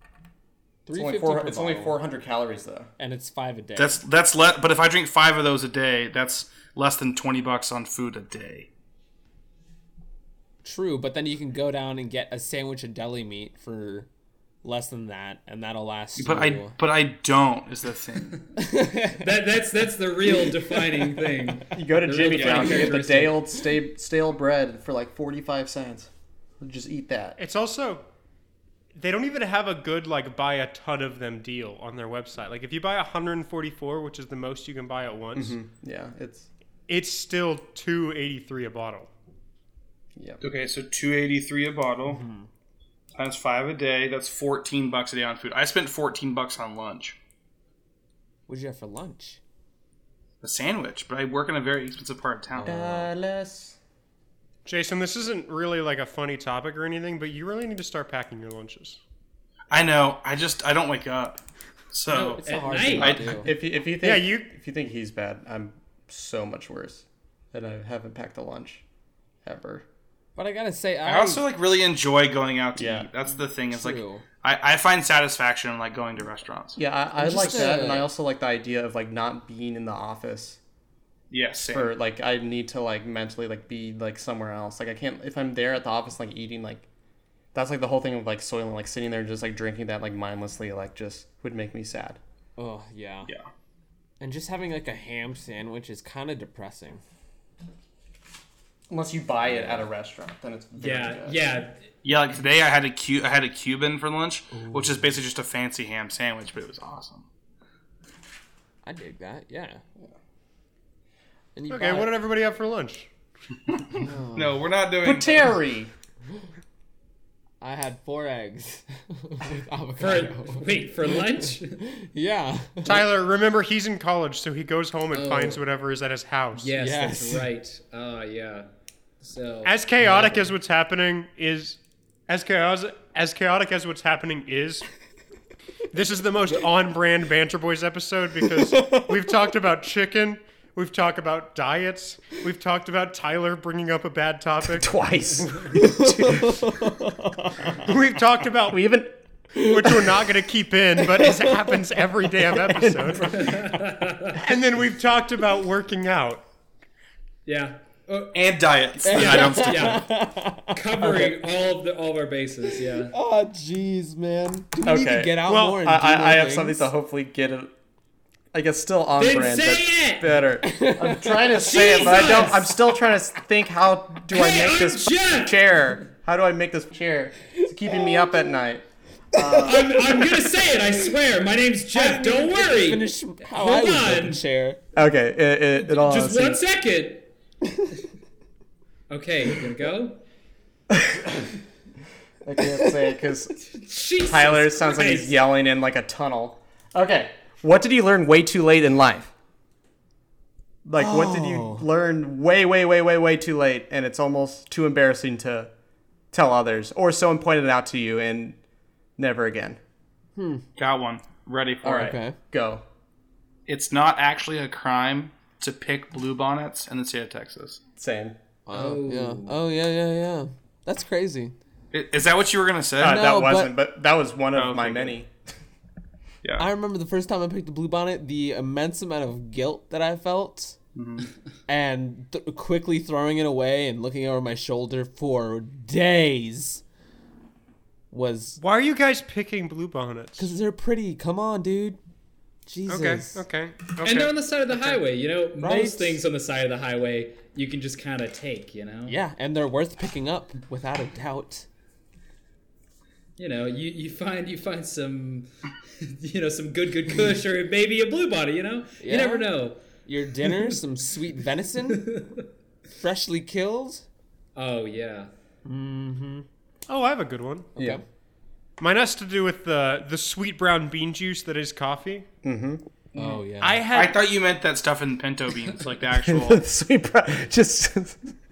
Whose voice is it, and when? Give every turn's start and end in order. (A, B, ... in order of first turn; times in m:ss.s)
0:00.9-0:02.0 A
0:00.9-0:02.9 B
0:03.0-0:04.0 A
0:03.8-0:08.7 C
0:10.6-0:14.1 A
0:14.6-0:16.8 A
0:16.2-0:18.4 C
0:18.6-0:19.3 A
0:19.2-0:23.4 D
0:20.3-0:21.6 A
0:21.7-0:27.4 B
0:22.4-0:23.0 A
0:27.4-0:28.0 E
0:29.0-0:35.6 E
0:35.4-0:36.5 B
0:36.9-0:39.1 E
0:40.2-0:40.4 B
0:40.4-0:42.2 C
0:42.1-0:42.5 A
0:43.2-0:47.2 C
0:48.5-0:49.4 A
0:50.4-0:52.8 C
0:52.6-0:53.1 A
0:52.6-0:53.8 B
0:54.6-0:59.0 E
0:59.7-1:02.4 C
1:02.1-1:03.2 D
1:02.1-1:03.5 A
1:03.0-1:08.8 B
1:03.0-1:03.4 C
1:04.0-1:04.5 E
1:09.4-1:09.8 B
1:10.4-1:11.4 A
1:11.0-1:16.8 C
1:12.8-1:13.1 B
1:13.7-1:14.2 A
1:16.8-1:20.6 B
1:17.2-1:18.1 A
1:17.4-1:17.7 C
1:21.3-1:21.9 C
1:21.7-1:26.9 B
1:27.5-1:32.2 B
1:32.6-1:33.3 A
1:34.2-1:37.0 A
1:38.9-1:41.4 B
1:39.5-1:39.8 A
1:40.8-1:41.8 D
1:42.0-1:47.3 C
1:44.5-1:45.1 A
1:48.8-1:49.8 A
1:51.6-1:52.1 A
1:51.7-1:53.1 E
1:53.7-1:55.6 C
1:54.0-1:54.6 A
1:55.0-1:55.9 B
1:57.6-2:03.0 A
2:00.0-2:01.8 D
2:02.8-2:06.7 E
2:05.1-2:05.6 D
2:06.6-2:08.7 D
2:06.8-2:07.5 A
2:09.2-2:09.7 D
2:09.6-2:14.9 E
2:10.0-2:10.4 A
2:15.9-2:24.9 E
2:18.6-2:19.2 A
2:24.6-2:27.0 B
2:25.8-2:27.8 A
2:27.8-2:28.8 E
2:28.7-2:29.2 B
2:29.6-2:30.0 A
2:29.6-2:33.6 E
2:31.0-2:31.8 A
2:32.7-2:33.6 B
2:33.3-2:34.4 D
2:34.4-2:36.4 E
2:37.5-2:40.1 D
2:38.3-2:40.0 C
2:39.0-2:41.3 A
2:40.7-2:43.1 D
2:43.0-2:46.9 A
2:44.8-2:47.7 B
2:45.5-2:45.8 E
2:48.5-3:00.0 B
2:49.2-2:50.4 D
2:50.6-2:51.6 A
2:51.5-2:52.8 D
2:54.3-2:56.0 D
2:57.6-2:58.4 A
2:59.4-3:00.2 A
2:59.6-3:04.4 D
3:01.9-3:04.8 A
3:05.0-3:06.6 B
3:05.8-3:07.3 D
3:09.1-3:10.2 D
3:10.9-3:11.3 B
3:12.4-3:13.6 B
3:13.7-3:15.4 D
3:14.3-3:19.3 B
3:20.8-3:25.7 B
3:21.0-3:21.9 A
3:26.3-3:28.6 B
3:29.2-3:29.8 B
3:30.4-3:30.6 A
3:30.8-3:32.1 C
3:31.8-3:32.8 B
3:31.9-3:32.4 A
3:33.7-3:37.8 C
3:38.0-3:38.4 B
3:38.7-3:41.5 A
3:38.7-3:39.6 D
3:41.9-3:43.2 C
3:43.0-3:45.3 B
3:43.0-3:43.7 A
3:44.5-3:45.2 C
3:46.6-3:50.8 A
3:51.0-3:51.3 C
3:51.7-3:56.8 A
3:58.1-3:58.6 A
3:58.6-4:00.5 E
4:00.4-4:02.0 A
4:02.7-4:03.4 A
4:02.9-4:05.0 E
4:04.0-4:09.2 D
4:05.6-4:06.2 A
4:09.1-4:11.7 A
4:13.4-4:19.8 D
4:19.0-4:22.1 A
4:20.4-4:20.7 D
4:21.9-4:22.4 D
4:22.9-4:24.1 A
4:24.6-4:25.3 D
4:25.6-4:26.5 A
4:26.9-4:27.7 E
4:27.8-4:28.0 A
4:28.8-4:32.3 E
4:32.4-4:32.8 B
4:33.2-4:33.8 A
4:33.6-4:34.2 E
4:33.9-4:36.6 C
4:36.2-4:38.2 B